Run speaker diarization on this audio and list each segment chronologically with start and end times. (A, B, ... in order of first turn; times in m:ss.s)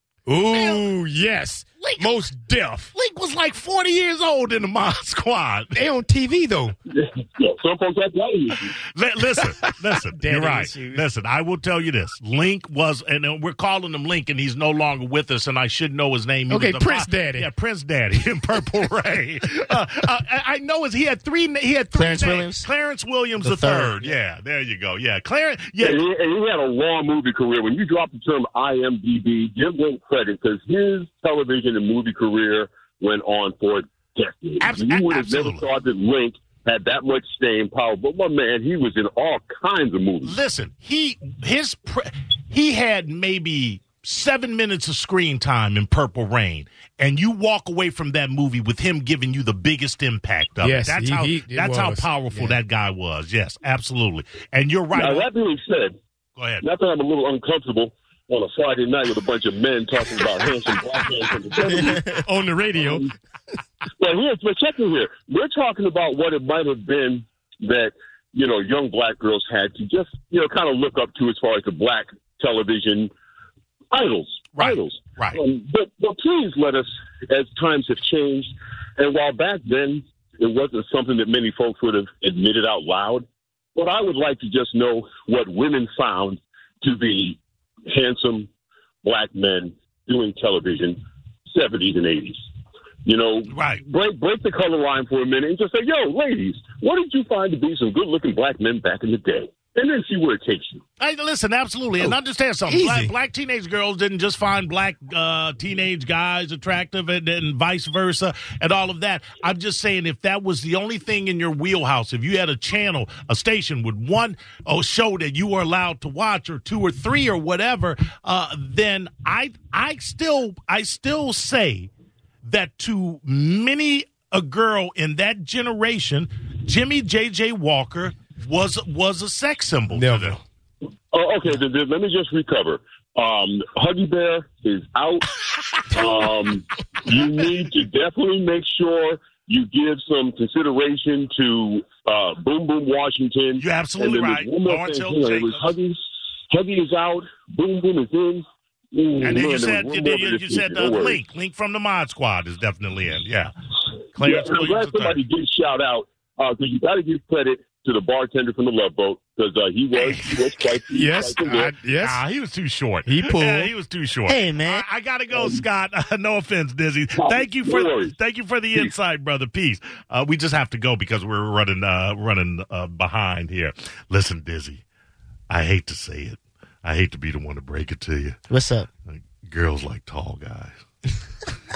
0:00.2-0:02.9 A
0:00.5-0:00.8 B
0:01.8-0:02.1 B
0:02.9-0:05.8 B
0:05.7-0:06.7 A
0:06.9-0:08.8 C
0:08.9-0:26.0 B
0:10.1-0:11.0 A
0:16.5-0:17.5 A
0:21.9-0:22.7 D
0:23.4-0:24.1 D
0:25.8-0:40.4 C
0:34.6-0:35.6 B
0:40.2-0:55.3 B
0:50.6-0:52.6 A
0:54.9-0:55.9 C
0:56.4-0:56.6 B
0:56.6-1:02.2 C
1:02.1-1:03.1 A
1:02.8-1:03.1 C
1:04.0-1:13.1 C
1:13.9-1:28.5 C
1:14.5-1:15.4 B
1:29.0-1:32.4 C
1:33.0-1:40.8 C
1:33.5-1:33.8 B
1:41.0-2:01.9 B
1:42.7-1:43.1 A
2:02.4-2:10.4 B
2:09.9-2:10.4 A
2:11.1-2:26.0 C
2:23.6-2:25.6 B
2:26.5-2:31.2 C
2:29.2-2:33.5 B
2:34.1-2:35.2 B
2:34.2-2:41.7 C
2:40.0-2:40.5 B
2:40.9-2:42.2 A
2:42.0-2:54.8 B
2:43.0-2:43.7 A
2:44.3-2:44.8 D
2:45.3-2:45.6 C
2:47.2-2:48.1 C
2:55.5-2:58.4 B
2:58.5-2:58.9 D
2:59.1-3:00.8 B